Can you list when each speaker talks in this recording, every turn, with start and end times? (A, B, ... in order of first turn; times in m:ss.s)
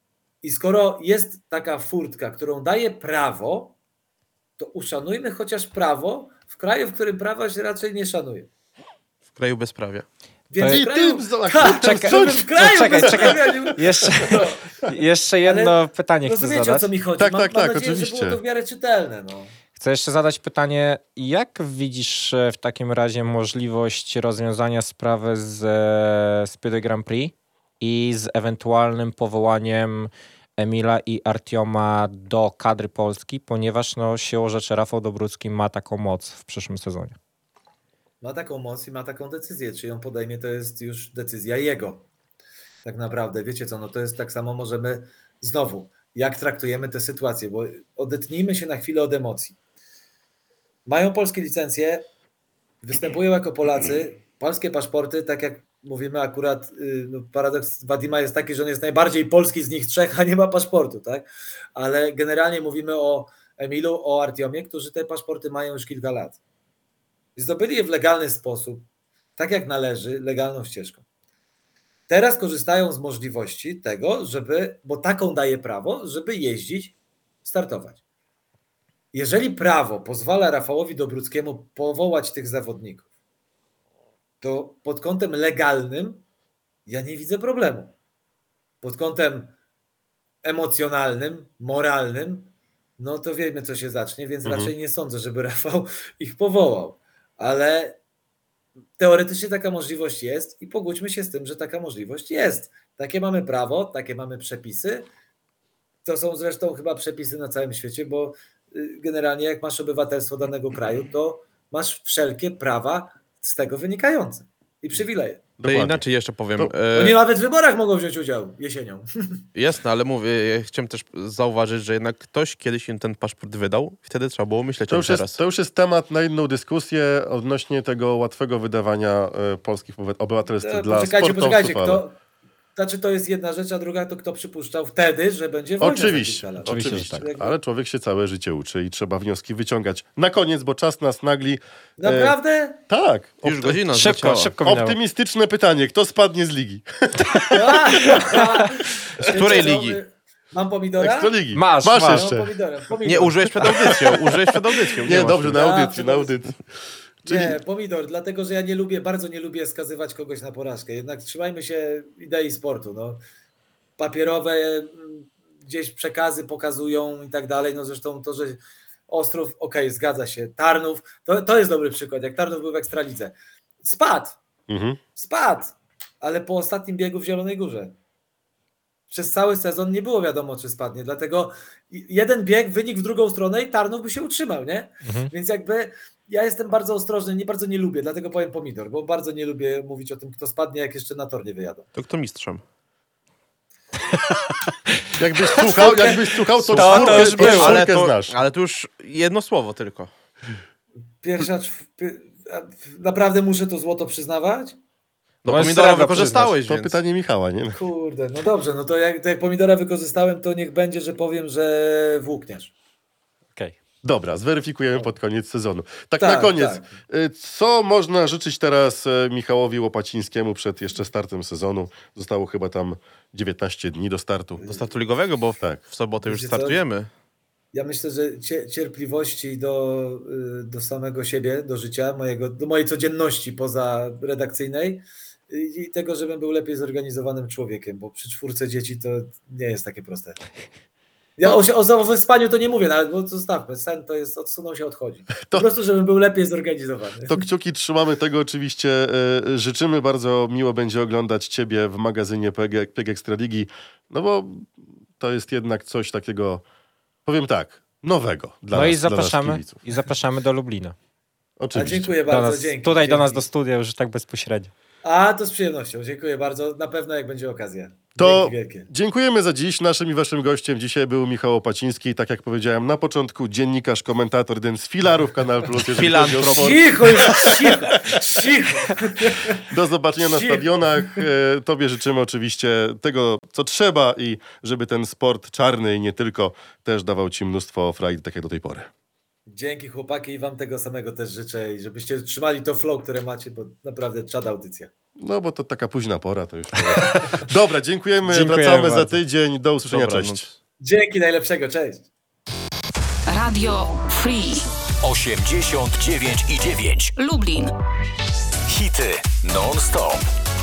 0:00.4-0:03.8 A
0:04.6-0:08.5 A
0:09.3-0:10.0 B
0:10.5-0:14.8 A
0:10.6-0:14.3 C
0:11.8-0:16.9 D
0:15.4-0:19.5 A
0:17.2-0:18.4 C
0:19.8-0:37.2 D
0:38.2-0:42.1 A
0:42.8-0:49.6 A
0:50.8-0:52.0 A
0:52.8-1:06.4 A
1:07.4-1:08.8 A
1:09.4-1:11.0 A
1:12.1-1:18.0 A
1:19.1-1:23.0 A
1:24.4-1:26.2 A
1:26.9-1:27.9 A
1:28.8-1:29.5 A
1:30.4-1:38.0 A
1:34.4-1:34.7 C
1:39.0-1:45.1 A
1:46.0-1:55.4 A
1:55.6-1:56.0 C
1:55.6-1:57.2 B
1:56.9-1:59.4 A
1:59.5-2:05.4 B
2:04.9-2:12.0 C
2:10.6-2:12.1 A
2:12.8-2:17.5 A
2:15.8-2:22.3 C
2:16.6-2:17.2 D
2:22.0-2:22.8 A
2:22.9-2:23.8 C
2:23.4-2:24.5 B
2:23.9-2:25.0 D
2:24.6-2:28.1 C
2:27.5-2:31.4 A
2:29.2-2:30.0 B
2:31.0-2:32.5 C
2:31.5-2:32.2 D
2:31.9-2:34.1 A
2:33.0-2:35.6 B
2:33.6-2:34.4 C
2:35.0-2:36.6 C
2:35.1-2:36.4 A
2:37.2-2:37.6 C
2:37.2-2:43.2 A
2:44.0-2:54.4 A
2:54.7-2:55.0 C
2:55.2-2:58.0 A
2:59.1-3:11.9 A
3:05.0-3:05.3 D
3:11.9-3:12.6 B
3:15.2-3:18.4 C
3:15.6-3:16.0 D
3:15.6-3:16.7 A
3:16.7-3:17.8 D
3:16.8-3:20.1 B
3:21.2-3:24.8 A
3:25.4-3:27.0 B
3:25.4-3:26.6 D
3:26.6-3:27.8 C
3:27.7-3:32.7 A
3:34.0-3:44.7 C
3:36.2-3:36.9 A
3:44.6-3:47.1 B
3:46.2-3:46.8 A
3:47.7-4:00.4 A
4:01.4-4:07.4 A
4:07.3-4:16.6 C
4:17.2-4:19.8 C
4:18.7-4:21.0 D
4:21.6-4:22.1 C
4:21.7-4:23.5 A
4:22.3-4:24.7 D
4:25.0-4:28.9 A
4:28.2-4:38.2 C
4:35.8-4:36.9 B
4:36.4-4:39.6 A
4:39.6-4:48.9 C
4:40.2-4:41.2 A
4:49.5-4:54.9 A
4:55.2-5:00.5 C
4:58.2-4:59.1 D
4:59.8-5:00.6 B
5:00.8-5:02.1 A
5:03.3-5:04.7 E
5:05.0-5:07.1 F
5:07.2-5:07.7 E
5:08.7-5:10.2 F